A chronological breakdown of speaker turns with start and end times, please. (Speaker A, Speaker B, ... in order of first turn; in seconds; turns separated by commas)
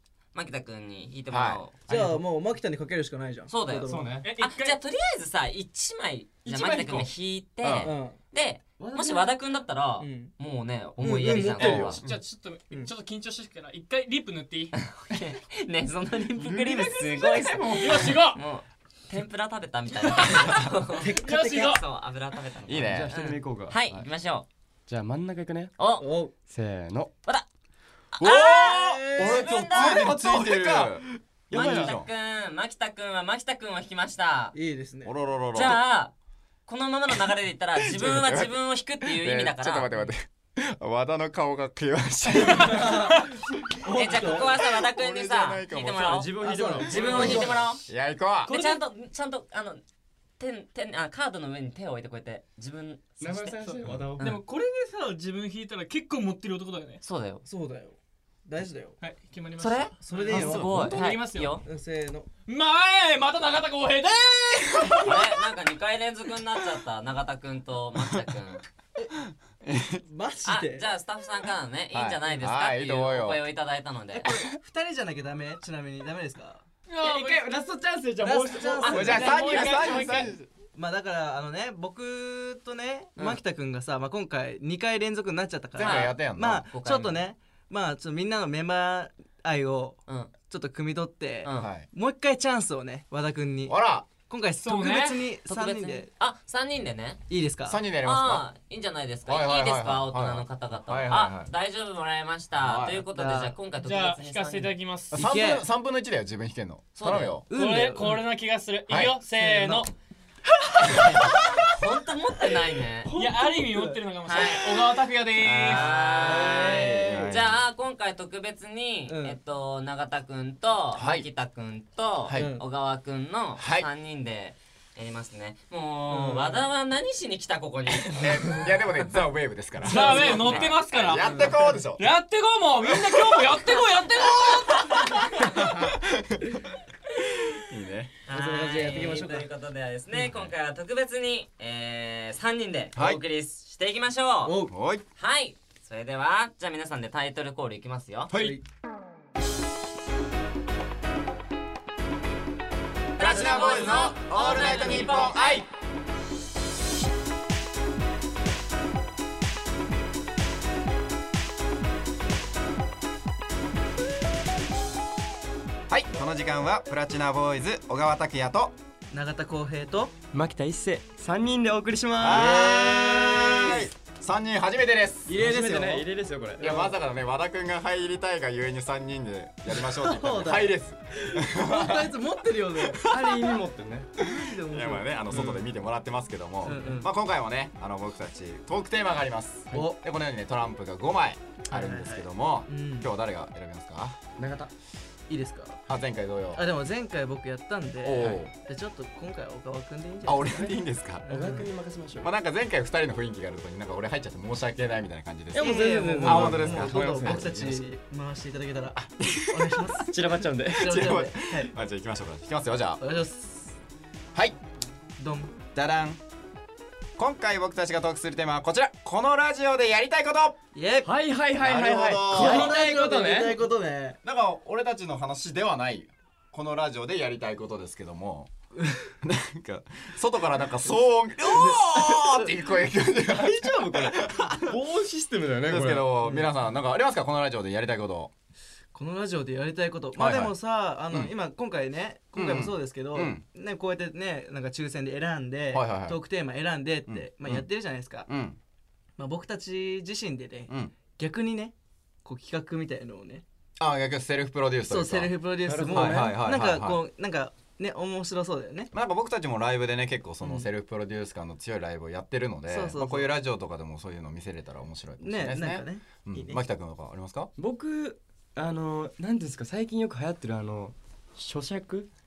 Speaker A: 0.3-2.2, Speaker B: 1.3-1.6, Speaker C: 1.9-4.2, Speaker A: 3.5-12.0, Speaker D: 3.8-4.3, Speaker E: 4.2-4.8, Speaker D: 6.4-7.1, Speaker B: 7.6-7.9, Speaker C: 7.8-8.2, Speaker D: 8.8-9.3, Speaker C: 10.0-10.3, Speaker C: 11.0-12.0, Speaker E: 12.0-14.7, Speaker A: 14.7-24.5, Speaker D: 16.4-18.0, Speaker E: 17.7-18.4, Speaker E: 20.1-21.8, Speaker C: 21.0-21.7, Speaker B: 22.6-23.1, Speaker D: 22.8-24.1, Speaker D: 24.9-25.8, Speaker A: 25.8-26.1, Speaker C: 26.0-26.3, Speaker D: 26.4-27.1, Speaker A: 28.1-30.1, Speaker D: 28.2-28.8, Speaker C: 28.6-29.8, Speaker B: 29.1-32.1, Speaker D: 29.4-31.9, Speaker A: 31.5-34.5, Speaker C: 34.5-35.1, Speaker B: 35.0-35.8, Speaker A: 35.5-36.1, Speaker A: 36.6-39.9, Speaker B: 37.8-43.2, Speaker C: 42.5-44.6, Speaker E: 42.8-43.2, Speaker A: 43.9-47.8, Speaker B: 44.4-46.2, Speaker D: 46.0-47.4, Speaker C: 46.4-47.5, Speaker E: 46.8-47.6, Speaker B: 47.1-48.6, Speaker E: 48.5-48.8, Speaker A: 48.5-49.8, Speaker A: 50.4-54.4, Speaker D: 53.2-54.3, Speaker E: 53.6-57.0, Speaker A: 57.0-57.4, Speaker C: 57.4-59.0, Speaker E: 59.0-61.6, Speaker A: 59.6-61.6, Speaker C: 60.0-60.7, Speaker B: 60.4-60.8, Speaker C: 61.6-62.3, Speaker E: 62.5-65.4, Speaker A: 65.0-68.6, Speaker B: 69.6-70.0, Speaker C: 70.0-70.8, Speaker A: 70.4-74.3, Speaker B: 71.9-73.4, Speaker C: 74.2-76.6, Speaker E: 76.9-77.5, Speaker D: 77.0-80.3, Speaker C: 78.2-79.3, Speaker A: 78.8-79.8, Speaker B: 78.8-80.4, Speaker E: 79.0-80.4, Speaker C: 80.7-96.1, Speaker B: 85.7-86.7, Speaker A: 85.8-87.2, Speaker A: 91.4-91.7, Speaker B: 91.5-91.9, Speaker B: 93.7-94.1, Speaker E: 94.6-95.2, Speaker A: 95.5-97.2, Speaker C: 97.3-97.8, Speaker B: 97.7-98.5, Speaker A: 98.0-104.7, Speaker B: 99.3-101.5, Speaker B: 102.6-103.0, Speaker C: 103.1-103.5, Speaker E: 103.8-105.2, Speaker B: 105.1-107.5, Speaker C: 105.2-105.6, Speaker A: 107.0-107.4, Speaker C: 107.5-108.2, Speaker E: 107.5-109.9, Speaker B: 108.9-109.2, Speaker C: 109.3-109.9, Speaker A: 111.0-113.1, Speaker C: 113.0-114.0, Speaker E: 113.1-116.9, Speaker A: 114.2-114.8, Speaker B: 115.4-117.6, Speaker A: 115.5-128.6, Speaker C: 116.4-117.3, Speaker C: 119.1-119.4, Speaker B: 120.9-121.2, Speaker C: 122.3-122.6, Speaker B: 123.6-123.9, Speaker C: 126.1-126.7, Speaker B: 128.0-132.1, Speaker E: 129.8-135.4, Speaker A: 129.9-130.7, Speaker C: 131.2-131.8, Speaker A: 134.3-135.5, Speaker B: 135.5-136.6, Speaker B: 137.7-138.1, Speaker A: 138.2-144.6, Speaker C: 138.3-139.5, Speaker B: 142.9-143.2, Speaker C: 144.4-144.7, Speaker B: 144.7-145.0, Speaker A: 145.2-148.3, Speaker B: 148.3-148.6, Speaker C: 148.3-148.6, Speaker A: 153.2-155.6, Speaker B: 153.2-155.7, Speaker B: 165.9-168.8, Speaker C: 169.1-170.1, Speaker D: 170.3-173.8, Speaker B: 172.2-175.4, Speaker C: 172.3-173.8, Speaker C: 175.3-176.9, Speaker D: 175.3-176.9, Speaker B: 176.6-182.1, Speaker C: 179.7-183.1, Speaker B: 183.0-183.5, Speaker D: 183.0-184.1, Speaker C: 184.2-185.7, Speaker B: 184.7-194.2, Speaker C: 186.6-187.1, Speaker C: 189.7-190.0, Speaker C: 191.7-193.1, Speaker D: 194.4-194.7, Speaker C: 195.3-195.8, Speaker B: 195.9-196.6, Speaker C: 196.5-201.7, Speaker B: 198.0-198.5, Speaker B: 200.2-201.2, Speaker D: 200.5-202.3, Speaker B: 202.2-207.8, Speaker D: 205.5-207.8, Speaker C: 205.5-211.7, Speaker B: 208.9-209.9, Speaker D: 210.1-211.0, Speaker B: 210.7-213.0, Speaker C: 213.0-213.8, Speaker C: 215.2-215.5, Speaker B: 215.7-216.2, Speaker B: 217.2-220.6, Speaker C: 220.7-221.1, Speaker D: 221.0-223.6, Speaker B: 221.6-222.8, Speaker C: 222.3-224.2, Speaker B: 224.2-228.5, Speaker B: 229.2-234.7, Speaker C: 231.5-232.4, Speaker D: 233.2-236.1, Speaker B: 235.7-238.3, Speaker C: 236.2-236.5, Speaker C: 238.9-248.3, Speaker B: 240.1-240.6, Speaker B: 242.3-243.4, Speaker B: 245.7-246.2, Speaker B: 247.1-247.7, Speaker B: 248.3-248.6, Speaker C: 249.2-251.7, Speaker B: 250.7-250.9, Speaker C: 252.2-253.4, Speaker B: 253.8-255.3, Speaker C: 254.8-258.9, Speaker D: 255.6-256.4, Speaker B: 255.8-257.0, Speaker B: 258.9-267.5, Speaker C: 260.4-260.7, Speaker C: 262.7-263.3, Speaker C: 265.2-266.6, Speaker D: 267.6-272.1